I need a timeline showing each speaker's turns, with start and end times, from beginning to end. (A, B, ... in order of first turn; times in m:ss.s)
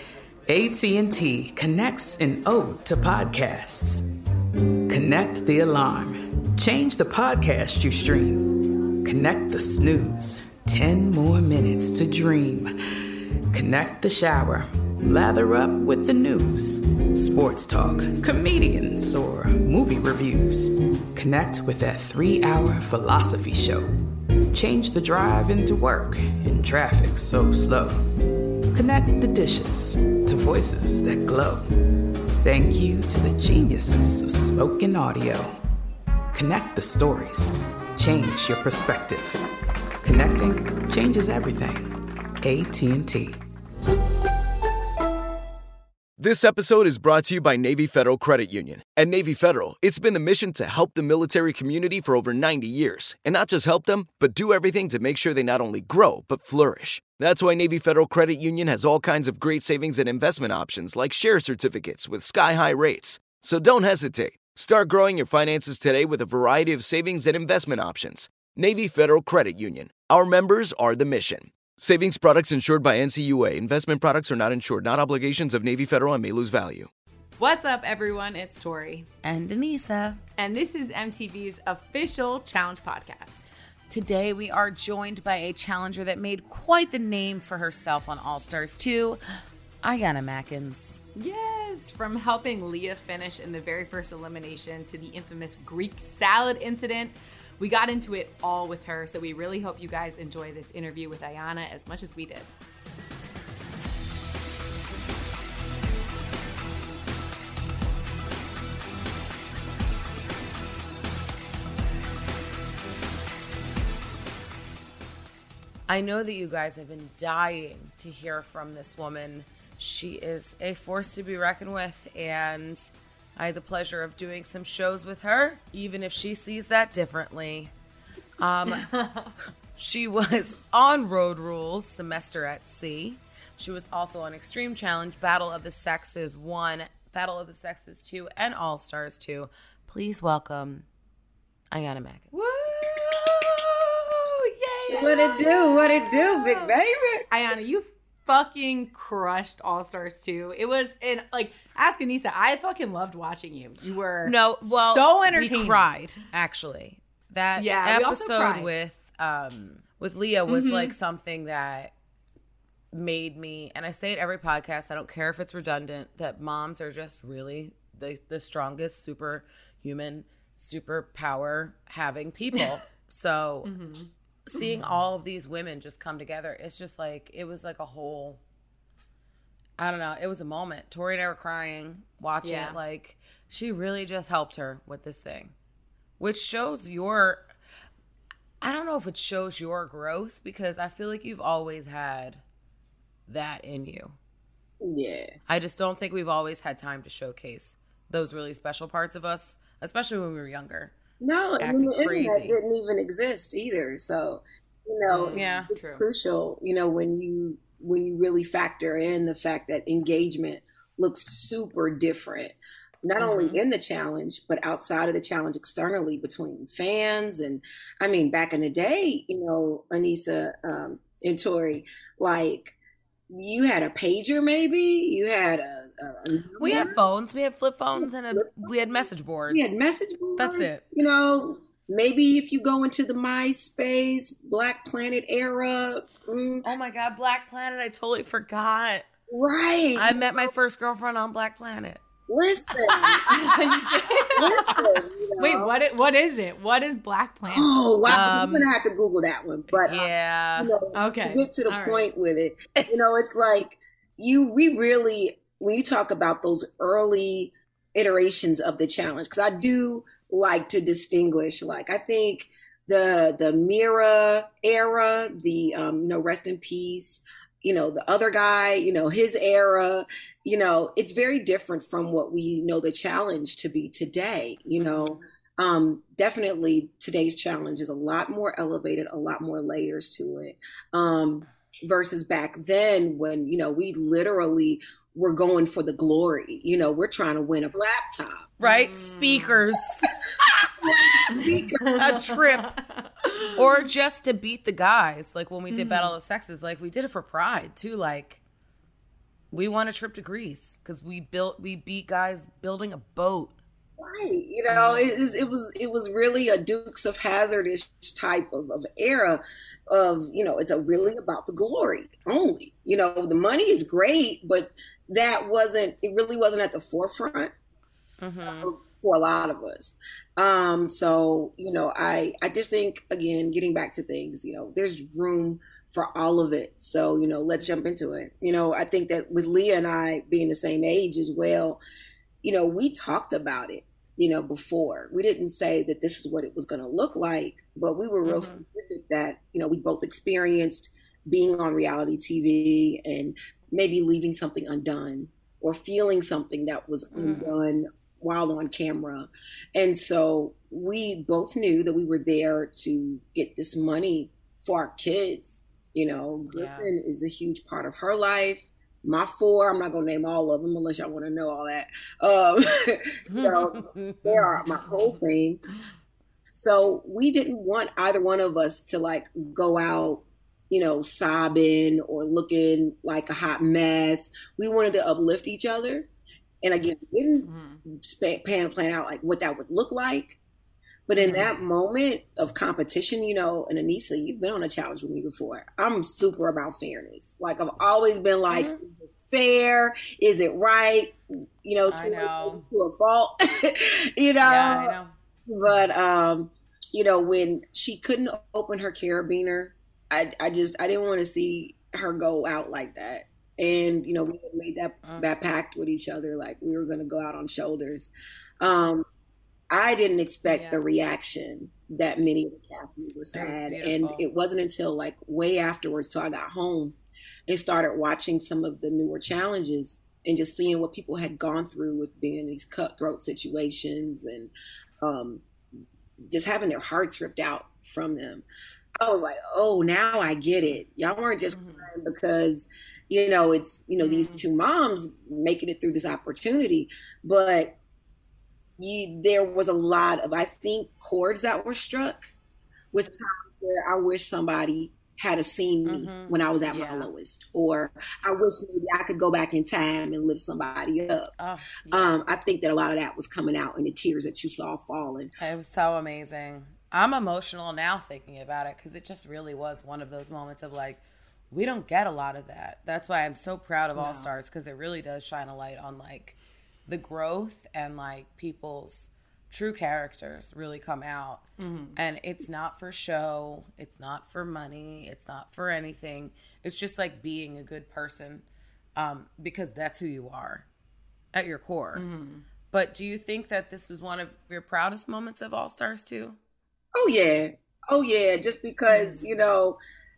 0:00.5-0:04.1 A
0:04.9-0:12.7 A
0:13.5-0:23.9 A
0:24.5-0:28.0 A
0:28.7-0:31.7 A
0:32.4-0:35.6 A
0:36.3-0:39.4 A
0:40.0-0:43.4 A
0:46.2-1:16.9 B
1:17.4-1:19.1 C
1:19.2-1:20.2 D
1:20.4-1:23.5 C
1:23.9-1:29.2 D
1:29.8-1:31.0 D
1:31.2-1:42.5 C
1:55.9-2:07.7 D
2:08.4-2:09.1 D
2:08.8-2:09.3 C
2:09.8-2:20.9 D
2:21.7-2:22.3 D
2:22.3-2:26.7 C
2:24.9-2:27.3 E
2:27.3-2:35.9 C
2:34.2-2:41.9 D
2:37.6-2:38.7 C
2:40.5-2:41.0 C
2:42.9-2:53.7 D
2:53.6-2:54.1 C
2:54.5-2:58.4 D
2:59.8-3:05.5 D
3:02.4-3:02.8 C
3:06.2-3:07.5 D
3:08.6-3:12.4 D
3:13.3-3:14.2 D
3:14.8-3:15.3 E
3:15.5-3:20.9 D
3:21.2-3:42.8 E
3:21.6-3:22.6 D
3:25.1-3:26.0 C
3:25.3-3:25.7 D
3:33.2-3:33.5 C
3:43.3-3:47.0 E
3:46.6-3:49.8 D
3:48.0-3:56.7 E
3:50.4-3:50.8 D
3:56.6-3:59.0 D
3:59.3-4:00.5 E
4:00.0-4:02.0 D
4:02.3-4:03.3 E
4:02.8-4:03.4 D
4:03.3-4:04.7 C
4:04.4-4:05.7 E
4:05.4-4:07.7 C
4:07.5-4:48.5 E
4:08.1-4:08.7 D
4:09.9-4:10.7 D
4:10.9-4:12.1 C
4:34.8-4:35.2 D
4:48.6-4:50.0 D
4:48.6-4:49.6 C
4:50.8-4:51.9 E
4:51.4-4:53.6 C
4:51.9-4:52.8 D
4:53.5-4:58.4 D
4:55.7-4:56.1 C
4:59.5-5:03.6 D
5:04.0-5:17.5 E
5:04.7-5:05.1 D
5:18.2-5:18.7 D
5:18.5-5:31.8 E
5:32.4-6:05.6 E
5:38.2-5:38.6 D
5:47.2-5:47.5 D
5:56.5-5:56.9 D
6:03.3-6:04.6 D
6:06.6-6:16.1 E
6:16.6-6:20.4 E
6:17.5-6:17.8 C
6:21.1-6:48.1 E
6:28.5-6:28.8 D
6:31.9-6:32.6 D
6:34.4-6:35.1 D
6:48.6-6:49.1 E
6:49.7-6:57.0 E
6:50.5-6:50.8 C
6:53.3-6:54.2 D
6:57.5-7:05.4 E
7:06.2-7:08.4 E
7:09.0-7:17.8 E
7:11.5-7:11.9 C
7:14.0-7:14.4 C
7:18.8-7:22.3 E
7:22.9-7:31.3 E
7:25.9-7:27.1 D
7:31.4-7:32.1 D
7:31.9-7:35.3 E
7:35.4-7:46.4 D
7:44.0-7:44.3 C
7:46.9-7:58.4 D
7:51.6-7:52.0 C
7:59.0-8:00.7 D
8:01.3-8:02.0 D
8:02.0-8:02.4 C
8:02.7-8:06.4 D
8:07.0-8:09.8 E